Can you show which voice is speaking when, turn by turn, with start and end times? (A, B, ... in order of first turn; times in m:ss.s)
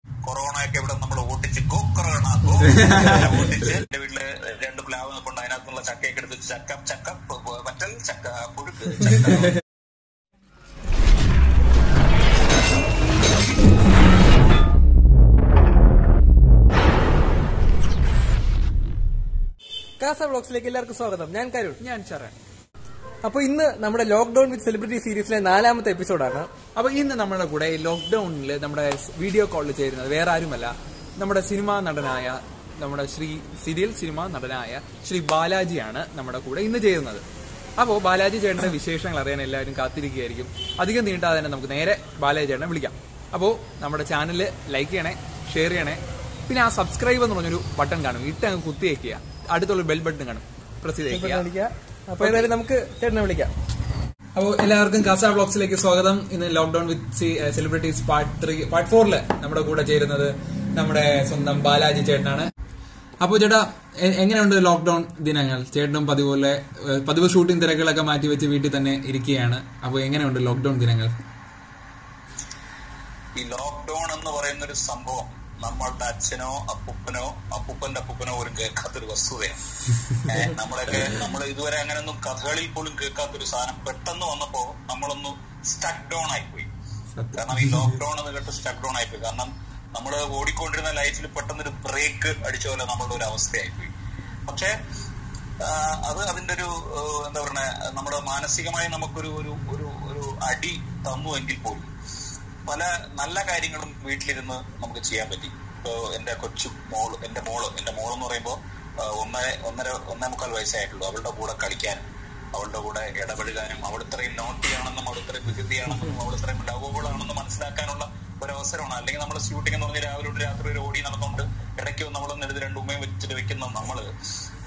0:00.2-0:09.5 A
0:02.7-0:03.4 B
0:20.0-0:21.8 C
0:21.8-0:22.3 B
0:23.2-0:26.5 C
0:26.8-0:37.2 B
0:37.8-0:51.4 B
0:51.1-0:53.5 C
0:52.2-0:52.5 B
0:54.4-1:02.5 B
1:03.2-1:11.1 B
1:13.4-1:19.6 A
1:20.2-1:26.7 A
1:27.1-1:28.0 B
1:27.3-1:33.9 A
1:34.5-1:34.7 A
1:35.6-1:41.9 A
1:42.6-2:04.1 A